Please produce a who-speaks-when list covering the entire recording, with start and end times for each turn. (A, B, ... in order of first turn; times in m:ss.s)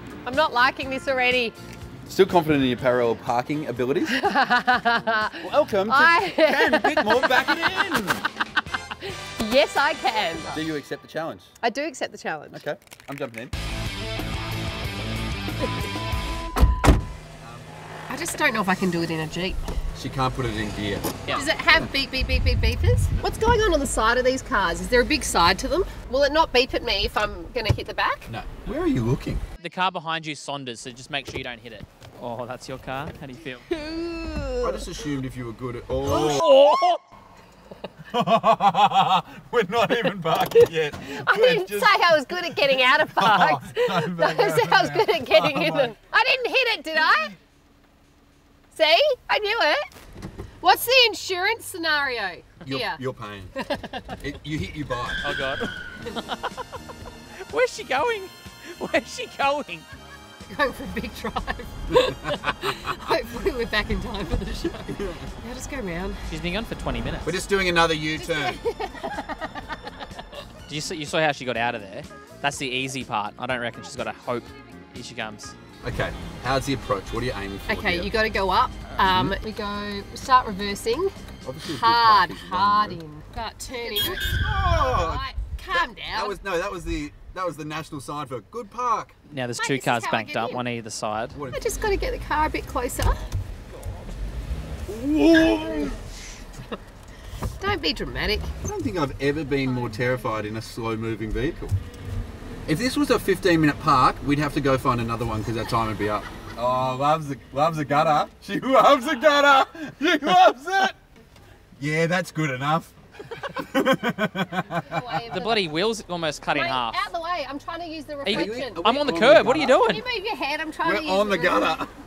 0:00.2-0:01.6 A
0:02.1-0:04.2 B
0:04.1-0:07.7 A
0:05.4-0:08.3 B
0:08.5-0:10.6 A
0:10.5-0:11.5 B
0:11.6-0:12.6 A
0:12.5-0:13.5 B
0:17.4-0:17.7 B
0:18.1-0:19.6 A
0:20.0-0:21.9 B
0:21.3-0:28.3 A
0:28.3-0:29.4 B
0:29.6-0:33.7 C
0:33.7-0:34.9 A
0:34.6-0:36.6 B
0:36.1-0:37.0 C
0:38.1-0:42.0 B
0:41.0-0:47.4 A
0:42.6-0:46.0 B
0:48.7-0:49.9 A
0:50.6-0:53.0 A
0:52.6-0:53.6 B
0:53.6-0:54.1 A
0:54.2-0:55.4 B
0:55.2-0:56.7 C
0:57.5-0:59.9 C
1:00.5-1:06.2 A
1:01.9-1:02.9 B
1:04.9-1:05.3 B
1:06.3-1:07.4 C
1:07.2-1:08.6 B
1:08.2-1:09.8 A
1:10.7-1:15.6 C
1:15.8-1:18.1 B
1:17.7-1:21.1 A
1:19.0-1:19.4 B
1:21.4-1:23.0 B
1:21.7-1:26.4 A
1:23.9-1:29.2 B
1:29.3-1:31.4 C
1:29.6-1:30.6 A
1:31.3-1:31.6 B
1:31.5-1:33.3 A
1:34.9-1:36.0 B
1:35.4-1:35.8 A
1:37.6-1:38.5 A
1:38.6-1:41.8 B
1:39.8-1:40.1 A
1:42.7-1:51.0 B
1:51.8-1:55.5 B
1:54.7-1:55.7 A
1:55.3-1:57.1 C
1:56.5-1:58.9 A
1:58.2-2:00.0 C
1:58.3-1:59.8 B
1:59.7-2:01.8 A
2:00.8-2:01.9 B